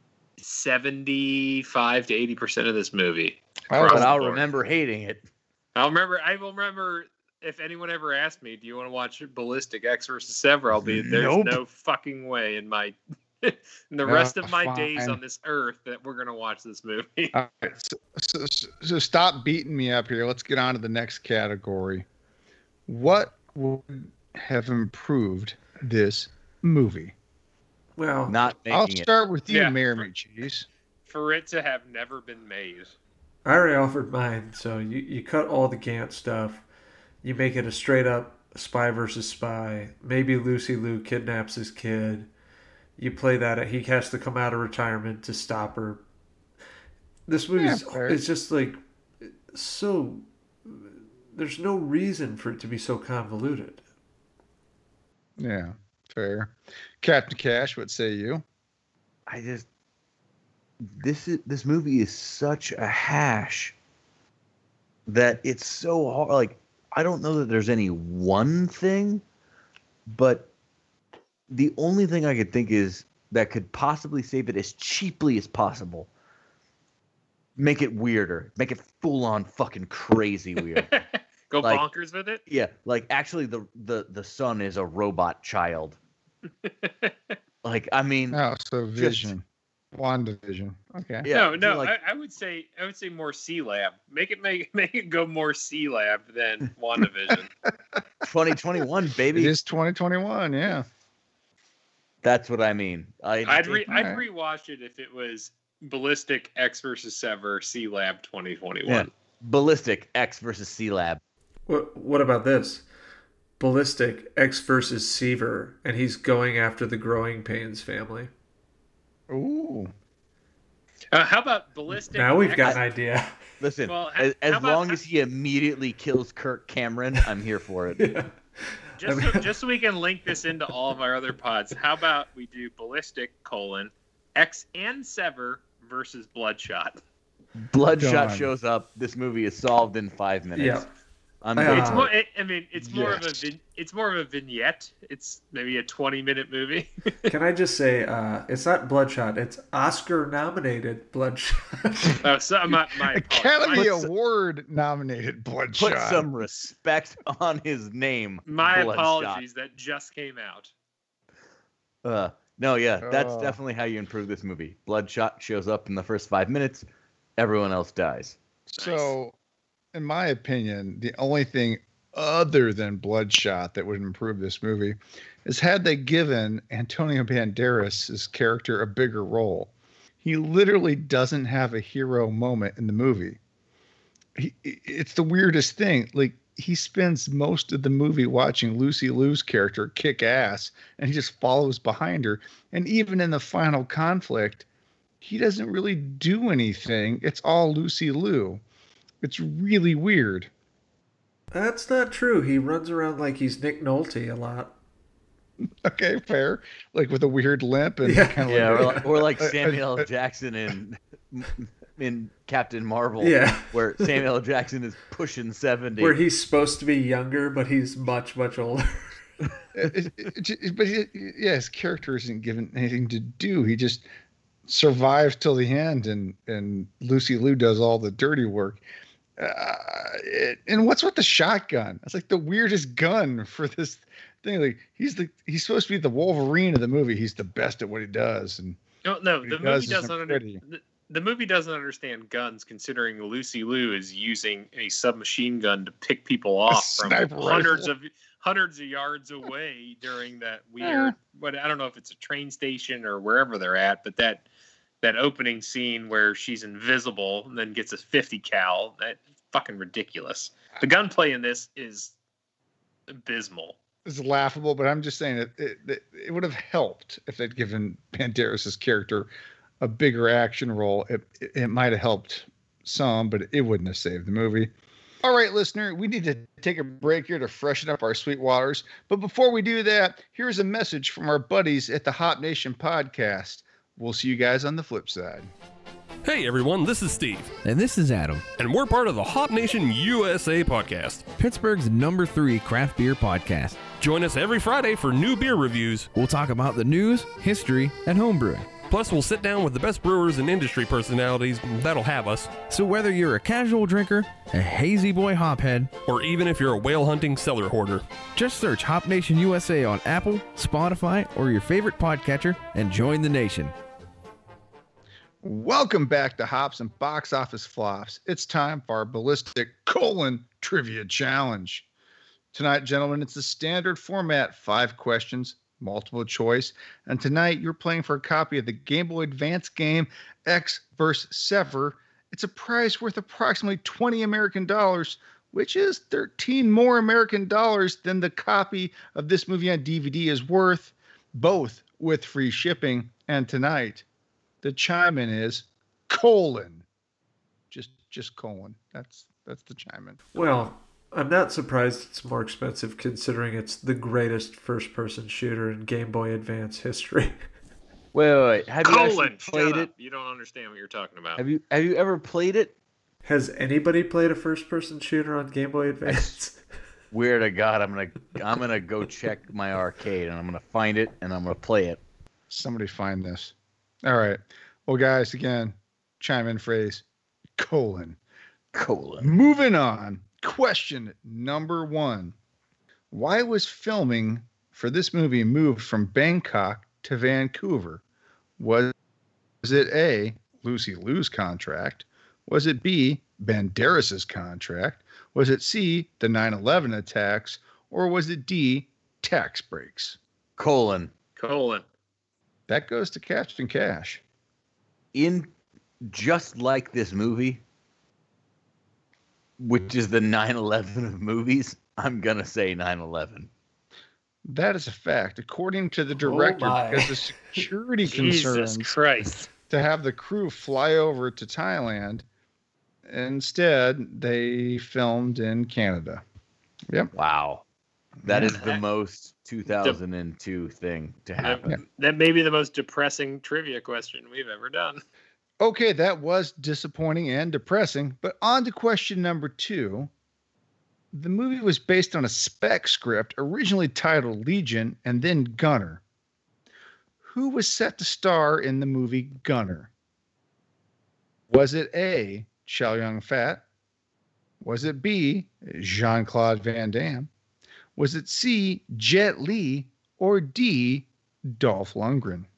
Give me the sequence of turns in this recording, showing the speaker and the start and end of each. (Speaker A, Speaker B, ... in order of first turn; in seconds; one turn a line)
Speaker A: 0.4-4.5
Speaker B: 3.7-4.2
Speaker C: 3.9-5.3
Speaker A: 5.8-17.3
Speaker C: 10.8-11.6
Speaker B: 14.1-15.2
Speaker B: 17.3-22.1
Speaker B: 22.9-27.1
Speaker D: 28.0-28.4
Speaker C: 28.3-29.1
Speaker B: 28.7-30.7
Speaker A: 29.5-30.1
Speaker A: 31.1-33.0
Speaker D: 33.5-36.6
Speaker D: 37.2-42.3
Speaker D: 43.0-46.0
Speaker D: 47.3-53.8
Speaker B: 47.6-48.2
Speaker B: 55.4-58.4
Speaker C: 59.3-59.7
Speaker C: 60.8-63.8
Speaker C: 65.1-69.2
Speaker C: 70.1-70.5
Speaker C: 71.5-76.1
Speaker C: 77.6-80.9
Speaker A: 80.8-82.4
Speaker C: 82.5-86.0
Speaker A: 86.7-87.3
Speaker C: 87.6-88.4
Speaker B: 88.3-89.4
Speaker C: 89.0-89.3
Speaker B: 90.0-91.3
Speaker C: 91.2-91.9
Speaker A: 91.3-97.5
Speaker C: 98.2-99.5
Speaker B: 99.3-100.9
Speaker C: 102.2-104.1
Speaker A: 103.5-109.1
Speaker B: 103.9-104.2
Speaker C: 108.9-111.2
Speaker D: 111.7-112.8
Speaker D: 113.6-118.3
Speaker B: 119.3-119.9
Speaker A: 121.1-122.8
Speaker D: 122.1-123.4
Speaker C: 123.6-128.1
Speaker A: 123.9-125.0
Speaker D: 128.0-129.5
Speaker A: 129.0-137.0
Speaker C: 137.6-140.9
Speaker B: 138.0-138.5
Speaker D: 140.6-140.9
Speaker C: 141.4-142.1
Speaker D: 141.6-142.1
Speaker A: 141.6-147.3
Speaker B: 142.8-143.4
Speaker D: 147.3-152.2
Speaker A: 152.2-154.1
Speaker B: 153.1-156.3
Speaker C: 153.7-154.1
Speaker C: 155.8-159.4
Speaker A: 158.5-160.7
Speaker C: 162.0-166.9
Speaker B: 163.0-163.6
Speaker C: 167.4-168.4
Speaker B: 168.7-169.3
Speaker A: 168.8-169.1
Speaker B: 169.9-179.7
Speaker B: 180.2-183.4
Speaker B: 184.4-194.7
Speaker B: 195.2-198.6
Speaker B: 199.2-200.5
Speaker D: 201.5-204.8
Speaker B: 205.8-210.1
Speaker D: 208.0-209.1
Speaker C: 208.5-216.2
Speaker D: 213.2-214.2
Speaker D: 216.0-219.2
Speaker B: 219.8-224.1
Speaker B: 224.7-228.8
Speaker B: 229.4-238.8
Speaker A: 239.1-254.4
Speaker B: 239.4-240.6
Speaker B: 246.7-247.9
Speaker B: 250.8-251.1
Speaker A: 255.0-262.1
Speaker A: 263.1-263.8
Speaker B: 264.1-269.3
Speaker B: 269.8-274.7
Speaker B: 275.2-285.5
Speaker E: 286.2-287.6
Speaker F: 287.6-288.5
Speaker E: 288.5-291.3
Speaker F: 291.4-293.9
Speaker E: 294.0-296.1
Speaker F: 296.1-298.8
Speaker E: 298.8-302.6
Speaker F: 302.6-305.9
Speaker E: 306.1-308.1
Speaker F: 308.3-313.8
Speaker B: 315.4-321.9
Speaker B: 322.5-344.1
Speaker B: 344.6-346.9
Speaker B: 347.7-350.2
Speaker D: 350.4-357.4
Speaker C: 358.1-359.9
Speaker A: 358.8-361.4
Speaker C: 361.4-362.7
Speaker D: 363.2-366.6
Speaker C: 366.1-366.4
Speaker C: 367.1-372.0
Speaker B: 372.5-373.5
Speaker B: 374.1-377.0
Speaker B: 377.6-378.2
Speaker C: 378.7-379.3
Speaker B: 379.2-382.3
Speaker B: 383.1-388.0
Speaker B: 388.6-388.9
Speaker B: 389.6-400.2
Speaker C: 400.6-401.1
Speaker A: 401.4-401.9
Speaker B: 402.7-404.2
Speaker C: 405.1-405.5
Speaker C: 406.0-407.6
Speaker C: 409.6-413.5
Speaker B: 414.4-419.0
Speaker D: 416.2-417.6
Speaker A: 418.1-419.5
Speaker B: 419.7-422.2
Speaker B: 423.1-426.2
Speaker C: 427.1-427.6
Speaker B: 428.2-428.6
Speaker C: 428.2-431.7
Speaker A: 428.5-428.8
Speaker A: 429.7-430.0
Speaker A: 431.4-435.0
Speaker B: 435.6-440.1
Speaker B: 441.1-446.0
Speaker B: 447.2-449.9
Speaker B: 451.5-453.6
Speaker B: 454.6-457.3
Speaker B: 458.0-462.5